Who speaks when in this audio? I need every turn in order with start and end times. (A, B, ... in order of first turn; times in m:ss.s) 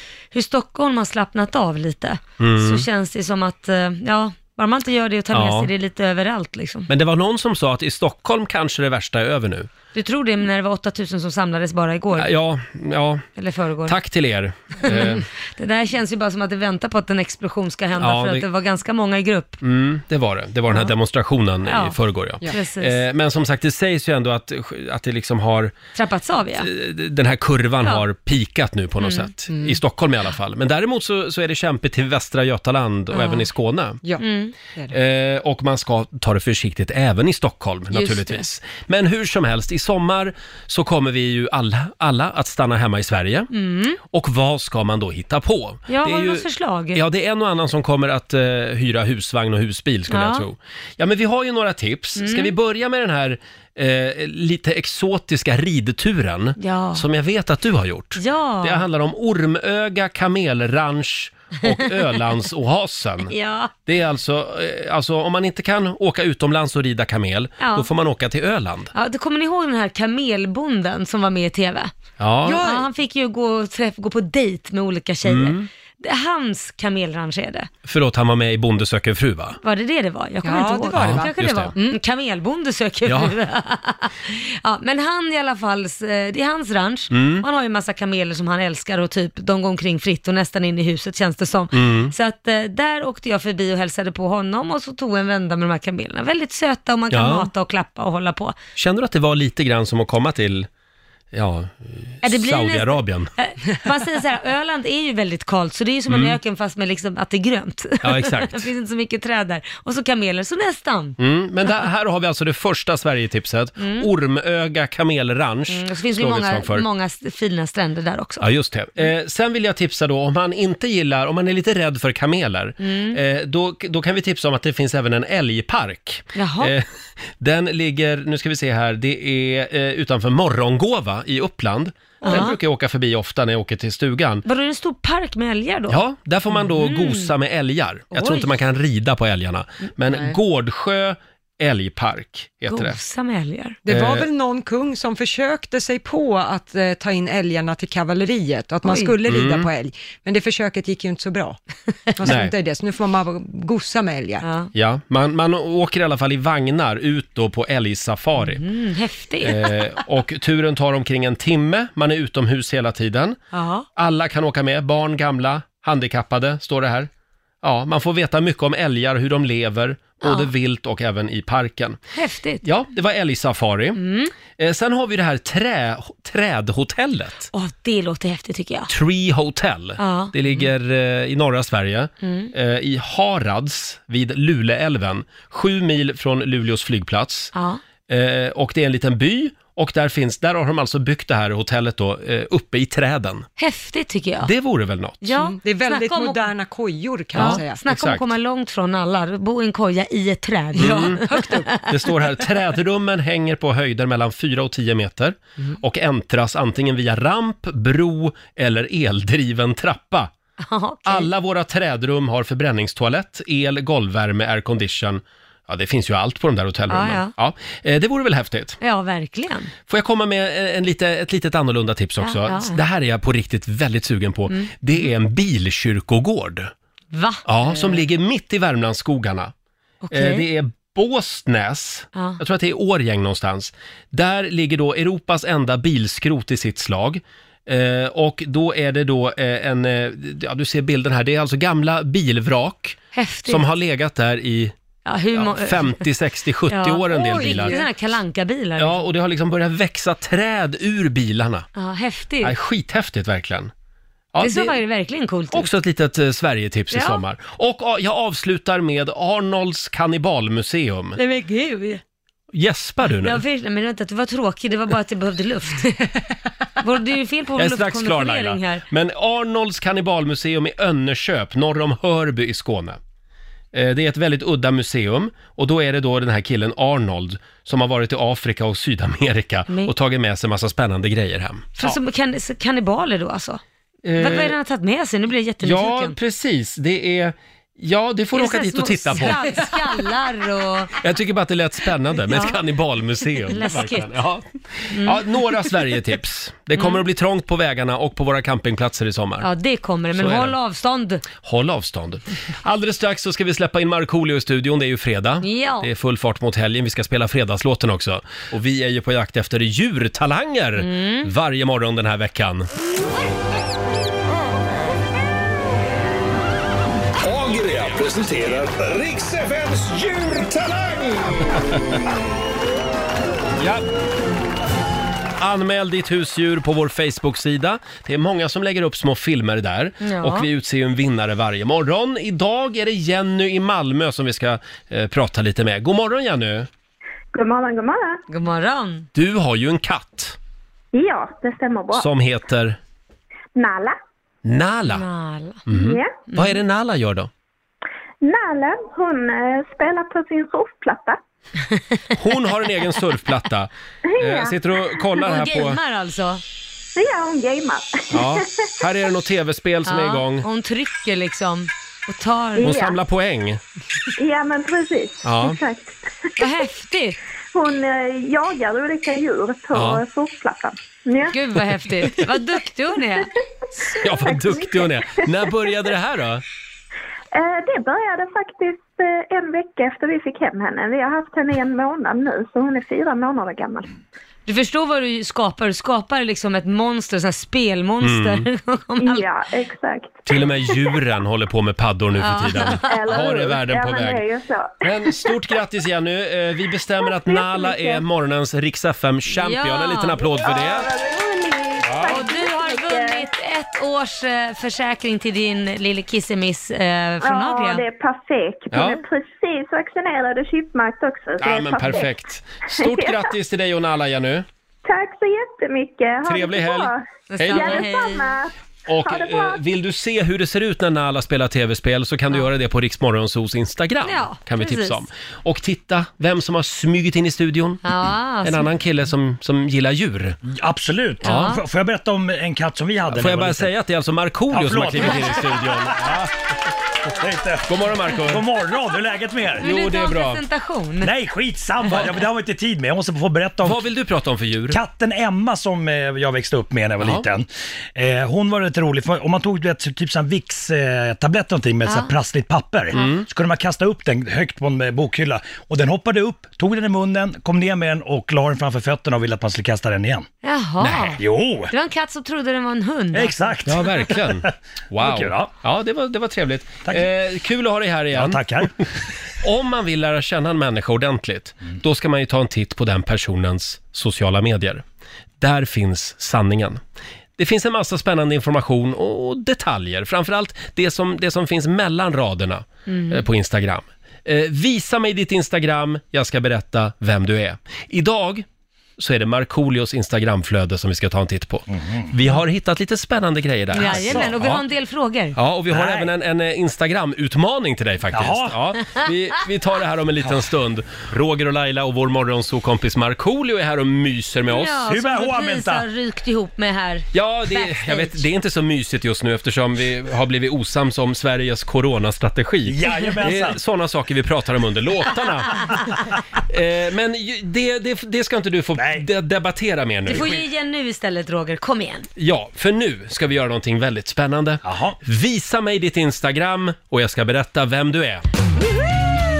0:00.3-0:06.9 A
0:02.4-0:02.8 B
0:05.3-0:05.7 B
0:06.9-0:09.7 B
0:09.9-0:12.3 A
0:12.2-0:13.2 B
0:13.4-0:14.0 A
0:13.9-0:15.2 B
0:14.8-0:19.6 A
0:18.0-0:18.4 B
0:19.6-0:25.8 B
0:21.7-0:23.0 A
0:26.0-0:26.7 A
0:26.6-0:34.0 B
0:29.0-0:29.3 A
0:29.5-0:29.8 C
0:33.1-0:33.5 A
0:34.0-0:35.0 C
0:34.2-0:34.5 A
0:34.9-0:43.5 B
0:37.9-0:38.4 A
0:43.5-0:44.0 A
0:44.0-1:03.3 B
0:45.9-0:47.0 A
0:50.1-0:50.5 A
0:52.2-0:52.5 A
0:56.6-0:57.0 A
0:58.2-0:58.9 A
1:01.6-1:02.2 A
1:03.2-1:03.7 A
1:03.9-1:08.9 B
1:07.6-1:07.9 A
1:08.9-1:11.9 A
1:12.2-1:12.6 B
1:12.4-1:12.9 C
1:12.4-1:17.7 A
1:15.2-1:15.7 B
1:17.8-1:19.6 B
1:19.6-1:38.6 A
1:20.4-1:22.0 C
1:20.9-1:21.7 B
1:23.0-1:23.3 B
1:27.1-1:27.4 B
1:31.7-1:32.1 B
1:37.1-1:37.5 B
1:38.8-1:40.7 B
1:41.3-1:43.3 B
1:42.2-1:51.2 A
1:46.1-1:46.4 B
1:48.0-1:48.7 B
1:51.2-1:56.8 B
1:53.8-1:54.1 A
1:55.7-1:58.5 A
1:58.4-2:14.4 B
2:02.8-2:03.2 A
2:06.4-2:06.7 A
2:12.2-2:12.6 A
2:14.5-2:16.0 A
2:15.9-2:23.0 B
2:16.6-2:17.3 A
2:18.1-2:18.5 A
2:22.7-2:23.8 A
2:23.8-2:31.6 C
2:23.9-2:24.3 B
2:28.8-2:29.2 A
2:29.3-2:29.7 B
2:32.1-2:34.4 C
2:32.2-2:32.5 B
2:34.4-2:34.7 A
2:34.7-2:38.6 B
2:38.4-2:39.8 A
2:39.4-2:43.4 B
2:43.5-2:43.9 A
2:44.0-2:47.1 B
2:47.6-2:52.0 B
2:50.2-2:50.5 A
2:52.1-2:52.6 A
2:52.6-2:54.0 B
2:54.0-2:54.3 A
2:54.6-2:57.5 B
2:57.5-2:58.9 A
2:58.9-3:07.5 B
3:00.0-3:00.3 A
3:02.2-3:02.5 A
3:07.5-3:07.8 A
3:08.1-3:13.5 B
3:13.6-3:14.5 A
3:14.4-3:15.3 B
3:15.2-3:16.5 A
3:15.6-3:17.8 C
3:17.4-3:18.2 B
3:17.4-3:22.1 A
3:20.8-3:21.7 C
3:20.8-3:30.3 B
3:30.6-3:31.3 A
3:31.0-3:38.8 B
3:36.9-3:37.3 A
3:38.8-3:39.7 A
3:39.9-3:46.7 B
3:42.2-3:42.8 A
3:47.1-3:47.4 A
3:47.4-3:49.5 B
3:50.0-3:50.5 A
3:50.1-4:04.8 B
3:52.1-3:52.4 A
4:03.1-4:03.6 A
4:05.0-4:06.0 A
4:05.3-4:07.8 B
4:06.7-4:09.0 A
4:07.1-4:07.9 C
4:08.8-4:11.7 B
4:11.8-4:12.5 A
4:12.4-4:13.7 B
4:14.3-4:14.8 B
4:14.4-4:15.7 A
4:15.5-4:21.2 B
4:16.9-4:17.2 A
4:21.2-4:22.0 A
4:22.5-4:23.4 B
4:23.2-4:26.2 A
4:26.8-4:28.8 A
4:27.6-4:33.0 B
4:33.7-4:42.0 B
4:41.8-4:43.6 A
4:44.0-4:44.5 B
4:44.2-4:46.2 A
4:45.6-4:49.8 B
4:48.3-4:50.9 A
4:51.0-4:59.5 B
4:52.3-4:52.6 A
4:53.4-4:54.1 A
4:54.9-4:55.2 A
4:56.8-4:57.0 A
4:59.4-5:01.2 A
5:00.2-5:00.5 B
5:01.4-5:12.7 B
5:05.4-5:05.9 A
5:10.8-5:11.3 A
5:17.2-5:21.6 D
5:23.6-5:23.8 B
5:25.4-5:36.7 B
5:30.0-5:30.5 A
5:37.3-5:38.2 E
5:38.3-5:39.1 A
5:39.1-5:40.4 B
5:40.9-5:42.1 E
5:42.0-5:42.8 B
5:43.6-5:44.0 E
5:44.4-5:45.0 B
5:44.9-5:45.6 A
5:45.7-5:47.3 B
5:45.7-5:46.1 E
5:46.3-5:46.6 A
5:48.2-5:51.2 E
5:52.2-5:55.8 B
5:54.1-5:54.6 E
5:55.2-5:56.4 A
5:57.0-5:58.4 E
5:58.1-6:00.5 B
5:59.8-6:02.8 A
6:02.6-6:03.0 E
6:02.6-6:03.6 B
6:04.2-6:06.3 E
6:05.2-6:05.6 B
6:06.4-6:07.2 A
6:07.5-6:11.4 E
6:09.7-6:10.0 B
6:11.3-6:13.3 A
6:13.8-6:15.5 E
6:14.0-6:16.4 B
6:17.3-6:23.9 E
6:24.5-6:29.3 A
6:28.0-6:28.4 B
6:29.0-6:31.0 E
6:30.3-6:34.2 B
6:32.2-6:33.2 A
6:32.9-6:35.3 E
6:34.8-6:40.9 B
6:37.1-6:38.0 E
6:39.3-6:40.2 A
6:40.4-6:43.3 E
6:41.8-6:42.2 B
6:42.0-6:47.8 A
6:47.2-6:52.2 E
6:48.7-6:49.0 B
6:51.4-6:54.5 B
6:52.7-6:53.2 E
6:54.8-6:59.6 E
6:56.2-6:57.8 B
6:57.3-6:58.4 A
6:58.9-7:07.9 B
7:04.0-7:05.0 A
7:07.8-7:08.7 A
7:08.4-7:10.4 B
7:10.5-7:13.7 F
7:11.2-7:11.5 B
7:11.2-7:11.6 A
7:13.1-7:16.3 B
7:14.5-7:16.2 F
7:17.2-7:19.7 F
7:17.7-7:18.5 B
7:19.6-7:20.4 B
7:19.6-7:21.1 A
7:21.0-7:23.8 F
7:23.6-7:24.8 B
7:24.7-7:40.3 F
7:27.0-7:27.2 B
7:32.9-7:33.2 B
7:40.4-7:41.2 A
7:40.8-7:41.2 B
7:41.2-7:41.7 F
7:41.7-7:43.5 A
7:43.1-7:45.5 F
7:43.7-7:48.4 B
7:48.1-7:48.7 F
7:49.4-7:54.8 B
7:55.4-7:56.8 B
7:57.4-8:08.5 B
8:02.9-8:03.2 A
8:09.0-8:14.6 B
8:11.7-8:12.1 F
8:13.7-8:15.4 A
8:13.8-8:14.4 F
8:15.3-8:24.8 B
8:15.7-8:16.1 F
8:18.1-8:18.6 F
8:24.5-8:28.2 A
8:24.8-8:25.8 F
8:27.1-8:35.8 B
8:32.7-8:33.6 F
8:36.5-8:40.4 B
8:38.8-8:39.1 F
8:40.1-8:42.1 A
8:40.1-8:40.4 F
8:42.2-8:48.2 B
8:44.6-8:45.0 F